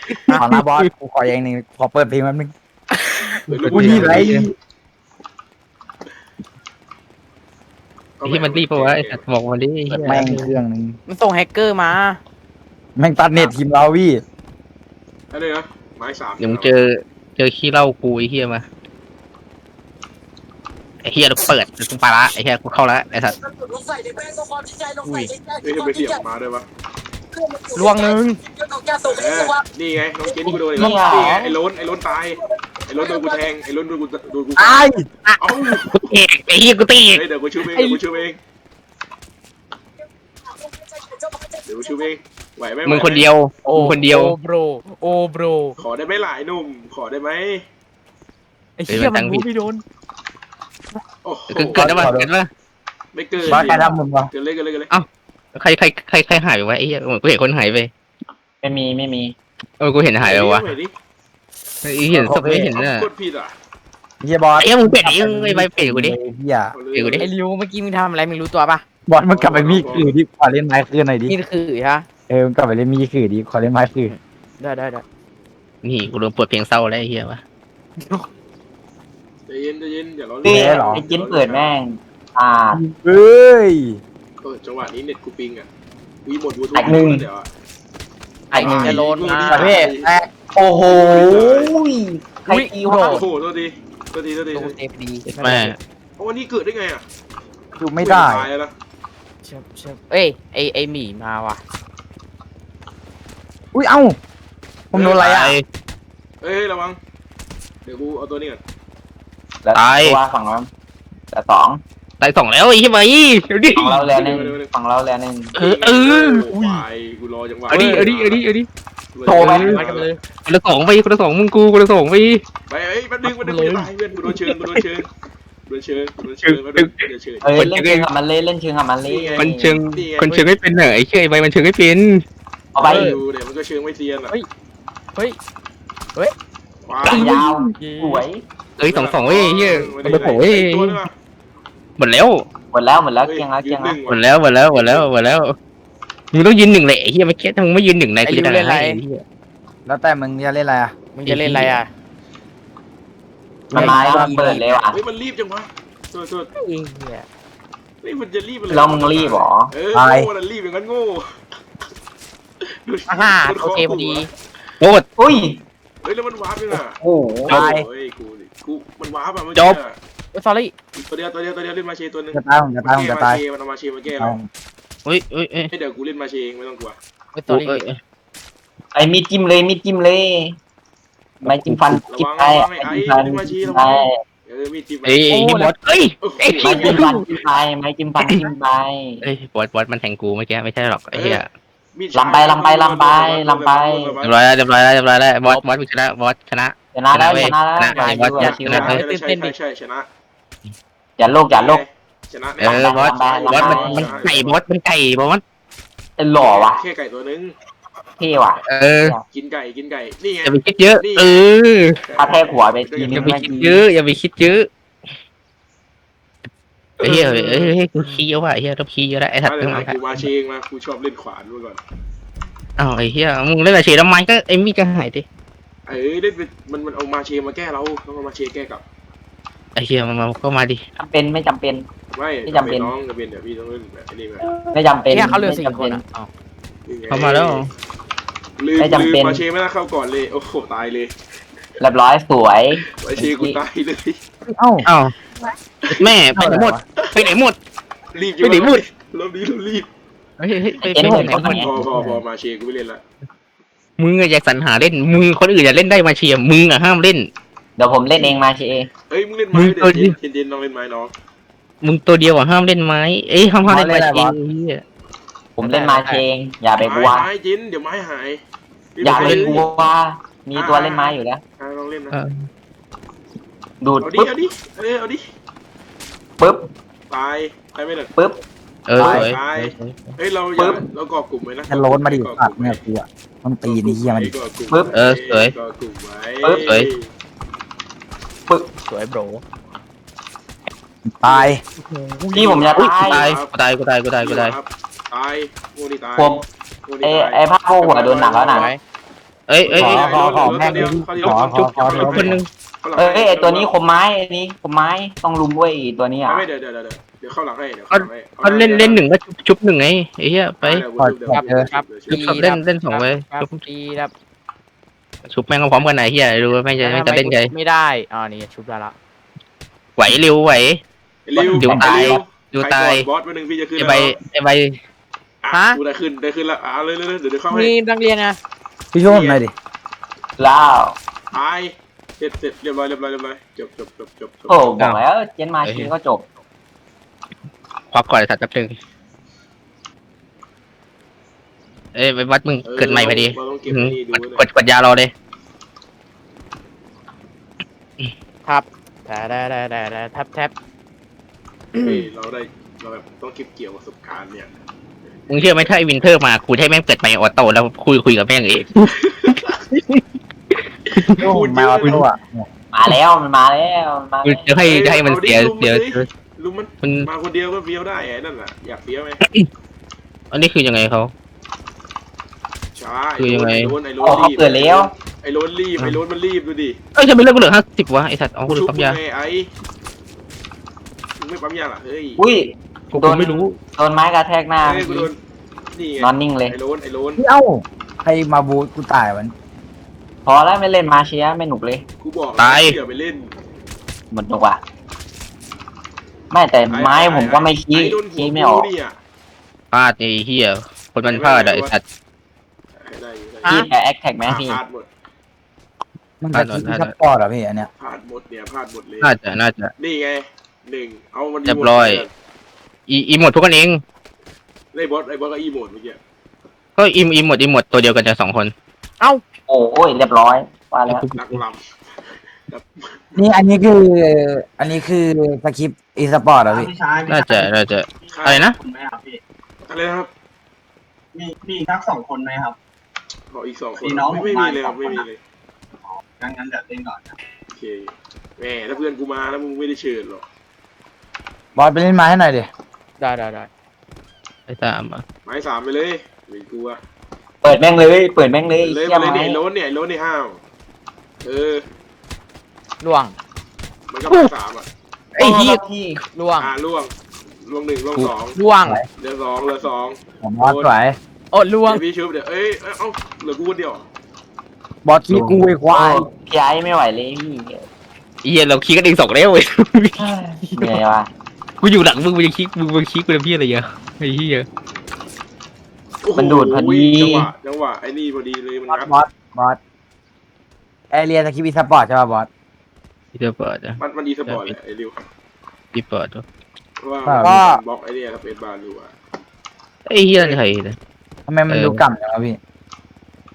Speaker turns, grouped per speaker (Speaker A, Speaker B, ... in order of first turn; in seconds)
Speaker A: 0.3-0.9, 3.5-4.5, 8.2-10.5, 16.4-18.6, 21.1-23.4, 35.9-37.2, 42.9-44.3, 48.9-49.5, 51.5-52.5, 54.9-57.9, 59.8-60.7, 61.8-63.1, 64.6-66.2, 66.9-67.3, 75.8-77.4, 95.3-95.8, 105.1-105.7, 109.8-110.2, 112.2-114.0, 115.6-116.5, 117.7-118.7, 119.3-119.8, 120.5-122.4, 124.3-124.8, 126.4-127.0, 127.5-128.1, 129.4-132.2, 137.0-137.7, 138.8-141.1, 142.0-142.4, 144.1-145.6, 146.3-149.2, 151.3-151.8, 153.8-154.3, 175.1-175.7, 177.5-178.0, 181.5-182.0, 185.1-187.2, 188.2-188.5, 189.2-191.5, 194.2-199.0, 202.6-205.4, 208.7-209.1, 210.4-212.0, 213.1-214.7, 217.0-220.3, 222.8-225.2, 229.8-230.8, 237.1-237.7, 244.9-245.1, 245.9-247.6, 248.4-248.8, 250.4-251.7, 254.0-257.3, 259.5-260.1, 261.8-264.8, 269.1-269.5, 272.1-272.5, 278.9-280.1, 284.9-285.6, 286.6-286.9, 292.8-294.6, 299.5-302.5, 307.9-310.8, 312.1-313.6, 315.3-317.5, 320.0-320.8, 321.4-323.1, 323.8-324.8, 335.6-335.9, 337.9-338.8, 342.0-345.1, 355.3-359.0, 359.7-360.0, 360.9-361.2, 364.2-366.1, 366.8-367.1, 370.3-371.1, 373.2-373.7, 377.0-379.0, 382.9-383.6, 392.4-392.8, 399.7-401.8, 406.3-406.9, 409.0-409.7, 411.4-412.1, 412.9-413.8, 416.8-418.5, 420.9-421.4, 427.1-428.6, 444.5-445.0, 455.1-455.6, 468.2-470.8, 471.6-474.5, 483.1-484.6, 485.7-486.2, 489.9-490.8, 491.5-491.8
Speaker B: 0.3-2.5, 3.7-4.5, 10.0-11.0, 13.0-14.2, 34.6-35.0, 51.8-52.3, 53.5-54.3, 62.1-62.7, 64.2-66.7, 69.1-71.3, 72.3-74.1, 80.5-81.0, 82.7-84.0, 89.5-90.3, 97.8-98.5, 103.7-104.2, 104.9-105.6, 149.9-150.9, 159.9-160.3, 167.5-167.8, 172.3-173.4, 174.2-174.5, 244.5-244.9, 246.3-246.8, 263.7-264.4, 279.0-279.3, 281.7-284.3, 291.1-291.6, 299.8-302.4, 311.0-311.7, 321.6-322.1, 328.9-329.5, 361.2-362.5, 387.2-389.3, 406.2-407.7, 423.2-426.7, 441.6-442.5, 460.2-461.0, 464.9-466.1, 478.7-479.6, 480.9-482.3, 487.1-487.6, 491.3-492.4
Speaker C: 3.5-4.5, 8.2-9.2, 15.3-16.8, 25.6-26.6, 29.1-34.8, 35.4-36.1, 37.1-38.4, 41.7-43.3, 45.8-47.6, 51.2-52.1, 53.1-54.9, 60.2-60.9, 62.7-63.5, 66.7-67.3, 69.3-70.2, 79.5-81.8, 84.4-85.7, 86.3-87.5, 88.6-90.1, 90.9-91.8, 93.0-94.7, 96.2-97.0, 98.0-98.7, 106.4-107.0, 107.8-108.6, 114.0-114.7, 115.6-118.4, 119.1-120.1, 122.7-125.1, 125.7-127.7, 129.1-130.3, 132.8-134.4, 136.8-137.4, 138.8-141.1, 143.2-145.1, 154.9-156.5, 158.0-161.3, 162.9-164.3, 166.0-170.0, 171.0-174.4, 175.7-177.0, 182.1-185.6, 186.2-187.2, 191.1-191.4, 191.9-194.3, 198.4-200.1, 201.5-204.6, 206.4-207.5, 209.3-211.4, 212.1-213.5, 219.4-221.8, 225.9-228.8, 232.2-234.5, 236.9-237.7, 238.6-241.1, 242.9-244.2, 247.0-247.3, 248.1-249.9, 251.0-253.0, 259.1-261.1, 266.8-268.4, 268.9-269.7, 270.5-272.1, 274.0-275.2, 277.1-278.1, 279.0-282.8, 283.6-287.1, 292.3-293.5, 294.2-298.7, 299.6-303.7, 306.3-309.1, 310.6-312.5, 321.3-324.2, 325.4-327.7, 329.1-329.4, 331.3-334.7, 342.6-344.4, 351.7-354.5, 358.9-359.6, 361.0-362.1, 364.6-369.2, 372.8-376.8, 378.5-379.5, 381.2-382.2, 384.6-385.2, 385.7-387.2, 392.0-393.3, 396.7-399.0, 401.1-401.7, 402.8-403.6, 404.2-404.9, 407.8-409.1, 409.8-412.1, 414.7-416.0, 421.1-421.7, 422.5-423.2, 428.1-428.5, 429.7-430.1, 433.3-435.2, 437.5-440.3, 445.3-446.8, 448.6-450.4, 451.2-451.6, 453.9-454.7, 456.4-456.9, 457.4-458.4, 459.0-460.7, 461.7-463.9, 476.0-479.0, 483.8-485.0, 486.8-488.9, 490.2-490.5
Speaker D: 11.1-12.2, 25.0-25.3, 27.8-28.4, 30.8-31.5, 37.7-38.0, 43.6-45.8, 48.8-49.8, 53.4-53.9, 67.2-68.8, 71.3-72.1, 74.1-75.0, 88.5-89.7, 92.5-93.3, 94.5-95.8, 99.4-101.6, 119.7-120.2, 123.3-123.9, 132.8-133.2, 137.1-138.3, 148.3-149.0, 151.1-151.9, 153.8-154.6, 156.6-157.3, 163.1-164.3, 170.3-170.7, 177.3-177.8, 185.3-185.7, 197.9-199.6, 217.0-218.2, 235.1-236.3, 265.6-266.2, 288.9-289.4, 298.5-298.8, 311.3-314.1, 316.8-318.9, 325.5-325.8, 327.5-328.4, 348.4-350.5, 403.4-403.7, 443.0-443.5, 452.8-453.2, 456.1-456.5, 458.4-458.8, 461.3-461.8
Speaker E: 30.4-31.4, 58.6-59.4, 80.4-82.8, 86.8-87.3, 88.5-89.1, 90.6-93.3, 109.6-110.7, 111.3-111.8, 113.8-115.5, 119.3-119.8, 127.4-129.8, 132.8-133.2, 137.1-138.4, 142.7-144.0, 153.7-155.0, 158.7-159.7, 165.2-165.6, 167.0-167.6, 178.9-180.6, 181.4-184.2, 186.6-189.2, 192.1-194.2, 196.9-199.0, 201.2-201.8, 202.6-204.2, 206.2-206.8, 208.2-209.2, 212.2-213.8, 231.0-231.9, 232.5-232.9, 234.7-236.0, 238.8-239.4, 241.8-243.6, 250.8-252.1, 257.8-258.9, 265.6-267.3, 269.0-271.4, 273.8-274.4, 276.4-276.7, 278.2-278.4, 280.6-280.9, 284.7-284.9, 286.4-286.7, 292.3-293.3, 296.2-296.5, 297.0-298.7, 303.0-306.5, 330.4-331.0, 334.5-336.3, 362.7-364.6, 374.0-374.9, 382.2-385.1, 386.0-386.6, 390.2-391.9, 394.1-394.6, 396.3-398.7, 403.5-404.6, 419.5-421.1, 447.4-449.4, 455.2-456.0, 465.1-467.7, 470.0-471.1, 476.1-477.3
Speaker F: 426.5-427.5, 428.1-429.2, 431.1-432.6, 433.8-435.1, 436.0-437.1